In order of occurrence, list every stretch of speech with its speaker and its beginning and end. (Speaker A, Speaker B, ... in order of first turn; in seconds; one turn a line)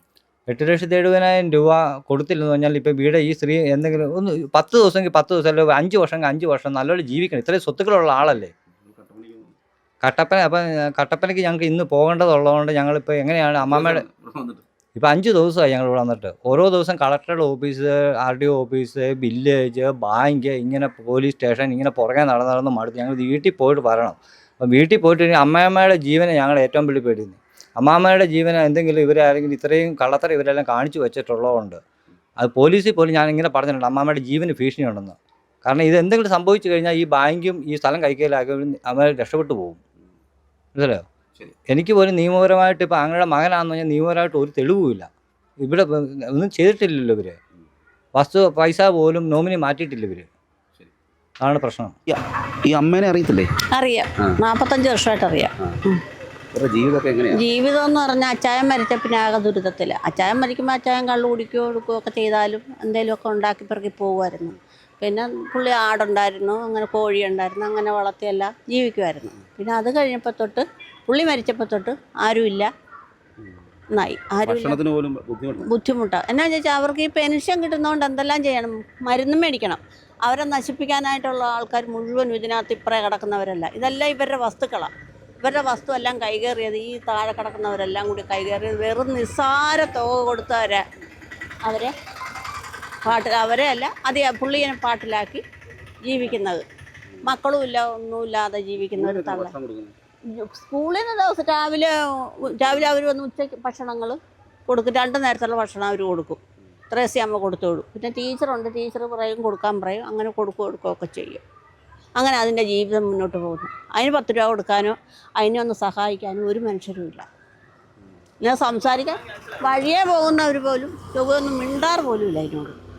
Speaker A: 0.5-8.5
Speaker B: 8.9-9.6
Speaker A: 10.0-14.0
Speaker B: 13.6-14.7
Speaker A: 15.0-31.8
Speaker A: 32.4-39.8
Speaker A: 40.8-41.0
Speaker A: 41.7-45.1
Speaker A: 45.6-47.4
Speaker A: 48.1-50.3
Speaker A: 51.4-51.9
Speaker B: 52.1-53.5
Speaker C: 53.7-56.0
Speaker B: 56.5-57.4
Speaker C: 57.3-72.7
Speaker C: 73.9-74.8
Speaker B: 74.4-75.7
Speaker C: 75.7-90.8
Speaker C: 91.7-91.9
Speaker C: 93.0-95.4
Speaker C: 96.1-96.6
Speaker C: 97.3-99.5
Speaker B: 98.8-99.9
Speaker C: 100.3-104.2
Speaker C: 104.7-106.4
Speaker C: 106.9-111.4
Speaker C: 112.2-117.2
Speaker C: 118.4-122.8